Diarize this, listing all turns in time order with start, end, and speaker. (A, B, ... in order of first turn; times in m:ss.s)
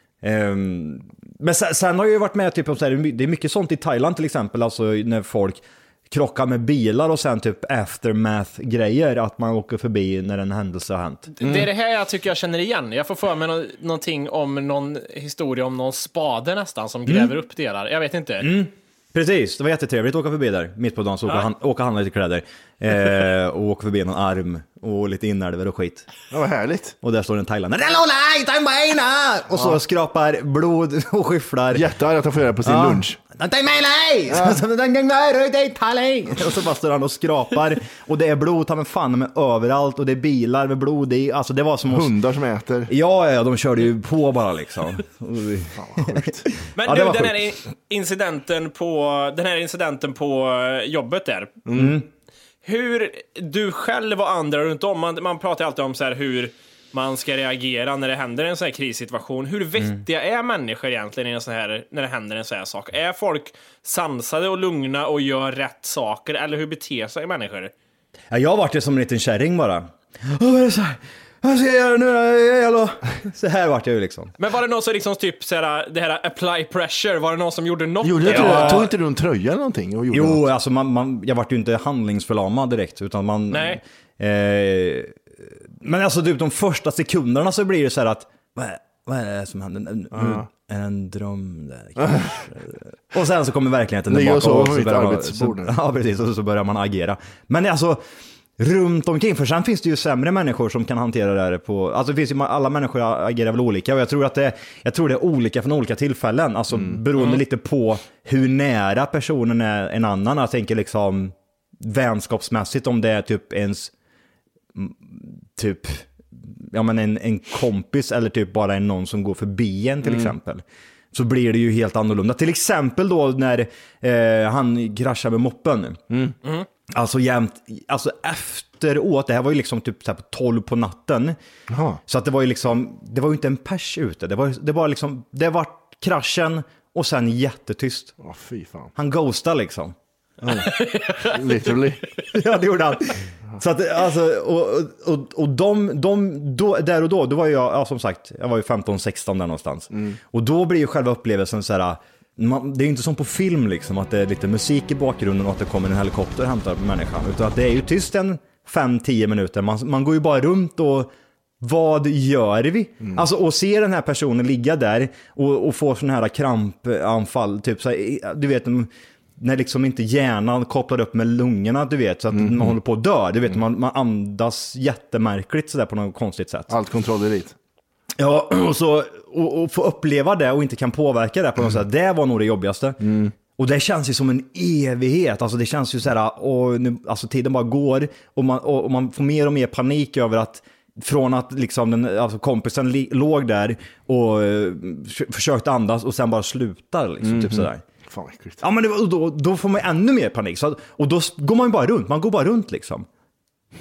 0:00.2-0:11.3 A
0:11.4-0:18.5 B
0:11.4-0:11.7 C
0:17.1-0:17.3 A
0:18.4-0:26.1 A
0:26.3-0:27.0 C
0:27.0-0:31.8 A
0:29.5-0:29.8 C
0:31.7-0:33.2 C
0:32.6-0:42.1 A
0:34.3-0:34.6 C
0:41.9-0:42.9 C
0:42.9-0:47.5 A
0:45.8-0:46.4 C
0:46.8-0:51.6 B
0:51.6-0:52.0 C
0:51.7-0:52.1 A
0:52.6-1:07.7 B
1:08.3-1:14.3 A
1:14.4-1:18.9 B
1:18.0-1:20.4 C
1:18.2-1:18.9 A
1:20.1-1:25.2 A
1:23.5-1:23.8 B
1:25.8-1:38.0 A
1:30.1-1:30.4 C
1:32.0-1:32.3 C
1:34.1-1:35.7 C
1:38.6-1:53.9 A
1:54.7-2:06.0 A
2:00.0-2:00.3 C
2:06.9-2:11.4 A
2:11.7-2:12.0 C
2:12.1-2:18.1 A
2:18.2-2:18.9 C
2:19.0-2:19.9 A
2:20.4-2:22.0 C
2:20.6-2:21.4 B
2:22.3-2:56.7 A
2:29.9-2:30.2 C
2:52.3-2:52.7 C
2:56.7-2:57.5 C
2:58.2-3:17.8 A
3:03.0-3:03.3 C
3:17.2-3:18.6 C
3:18.6-3:23.1 A